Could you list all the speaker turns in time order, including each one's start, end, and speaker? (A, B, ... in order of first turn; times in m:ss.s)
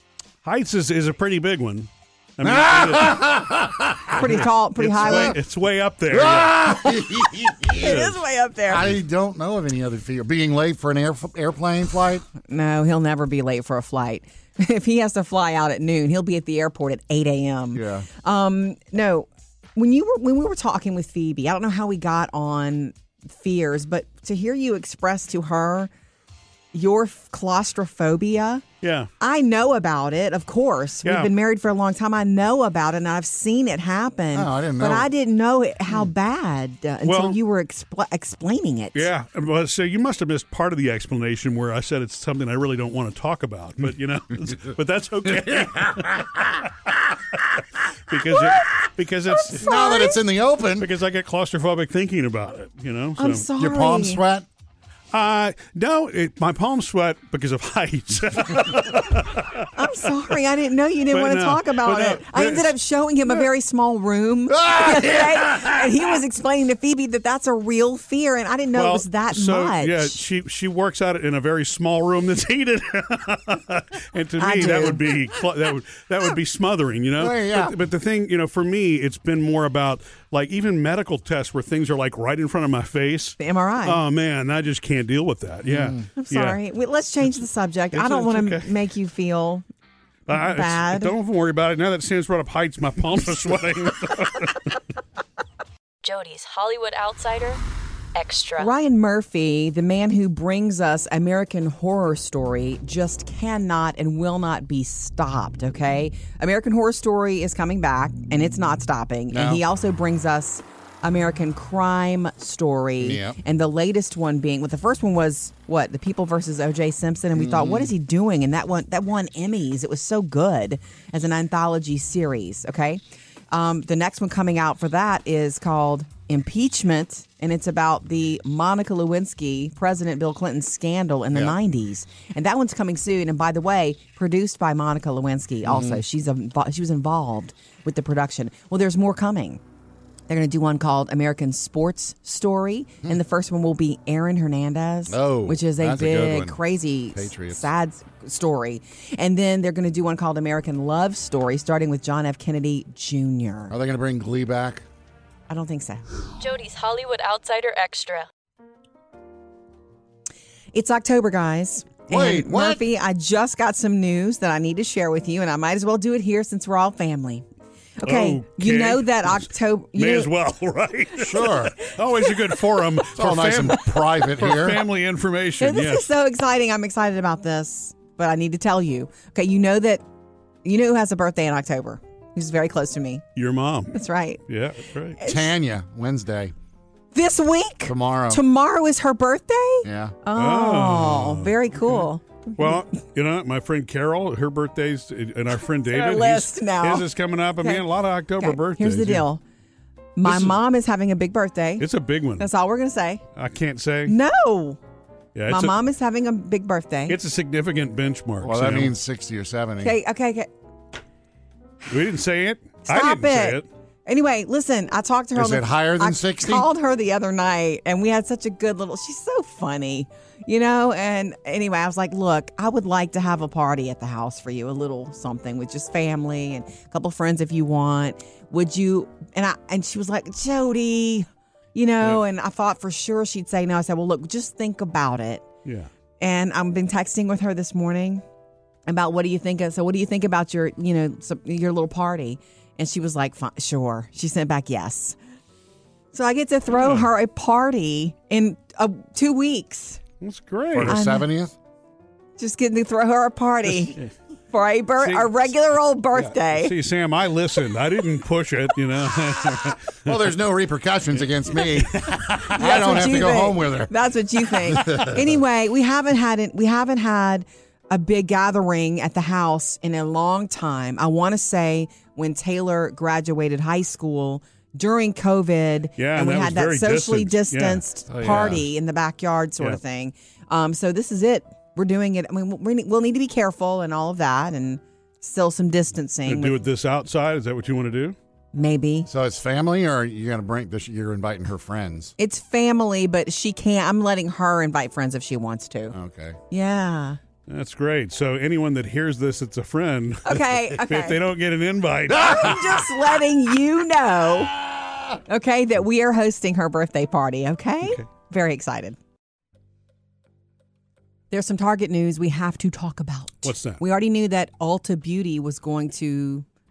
0:00.4-0:03.2 A
0:02.4-0:04.3 B
0:04.2-0:05.4 C
0:04.2-0:06.6 A
0:05.0-0:05.4 B
0:06.1-0:12.3 B
0:07.6-0:09.0 C
0:12.4-0:25.9 C
0:17.7-0:18.1 B
0:26.7-0:28.6 C
0:28.8-0:29.1 A
0:29.2-0:39.1 C
0:31.0-0:31.3 A
0:34.3-0:35.1 B
0:37.0-0:37.4 A
0:38.9-0:46.3 A
0:45.4-0:46.6 B
0:48.1-0:49.7 A
0:48.1-0:48.4 B
0:49.5-0:50.9 B
0:49.6-0:50.2 C
0:50.8-0:53.5 A
0:53.2-0:54.2 C
0:53.6-0:54.5 B
0:55.1-0:59.7 A
0:59.8-1:10.2 C
1:01.1-1:02.7 A
1:04.5-1:05.9 B
1:08.8-1:26.6 A
1:14.4-1:15.0 C
1:17.2-1:17.7 B
1:23.4-1:24.0 C
1:25.7-1:26.1 B
1:26.2-1:29.6 C
1:27.9-1:28.7 A
1:30.3-1:34.8 A
1:30.3-1:31.1 C
1:36.0-1:37.6 D
1:38.2-1:38.7 D
1:38.6-2:19.6 C
1:49.3-1:49.6 B
1:53.0-1:53.4 B
1:57.3-1:57.9 B
2:15.6-2:16.0 B
2:20.3-2:33.7 C
2:25.1-2:26.6 B
2:27.1-2:27.7 B
2:33.7-2:34.8 B
2:35.5-2:36.0 C
2:36.4-2:38.3 D
2:40.7-2:47.4 C
2:42.1-2:42.9 B
2:48.0-2:50.3 C
2:48.0-2:56.1 A
2:51.2-2:51.7 B
2:53.1-2:54.8 B
2:55.6-3:00.0 C
3:00.6-3:03.3 C
3:03.4-3:05.2 A
3:03.9-3:04.4 C
3:05.2-3:05.5 C
3:05.3-3:06.5 B
3:07.1-3:12.7 C
3:07.9-3:08.4 B
3:09.8-3:10.2 B
3:10.4-3:19.2 A
3:15.8-3:17.1 C
3:18.4-3:19.4 C
3:20.2-3:21.9 C
3:20.2-3:20.6 A
3:21.8-3:22.5 A
3:22.4-3:23.2 C
3:23.4-3:24.2 A
3:24.1-3:24.8 C
3:25.4-3:25.8 A
3:25.5-3:27.2 C
3:27.1-3:29.0 A
3:28.4-3:30.0 B
3:29.8-3:30.5 C
3:31.9-3:33.7 A
3:32.9-3:55.4 C
3:35.4-3:36.7 B
3:55.6-3:55.9 A
3:56.2-3:58.2 C
3:58.9-4:05.2 C
4:06.1-4:10.0 C
4:10.2-4:10.9 A
4:10.7-4:11.6 B
4:10.9-4:11.3 C
4:12.4-4:14.0 C
4:14.5-4:16.7 C
4:15.0-4:15.3 A
4:16.2-4:20.1 A
4:20.0-4:23.9 B
4:22.5-4:46.6 C
4:24.6-4:25.2 B
4:36.0-4:37.8 A
4:38.1-4:38.7 B
4:46.2-4:48.2 A
4:48.5-4:49.1 C
4:49.1-4:52.2 B
4:52.2-4:56.0 C
4:55.9-4:56.4 B
4:56.5-4:57.2 C
4:57.5-5:02.3 A
5:00.2-5:01.2 C
5:02.1-5:04.6 C
5:02.2-5:02.9 B
5:04.6-5:05.0 B
5:05.3-5:09.0 C
5:11.3-5:16.4 C
5:13.4-5:13.8 A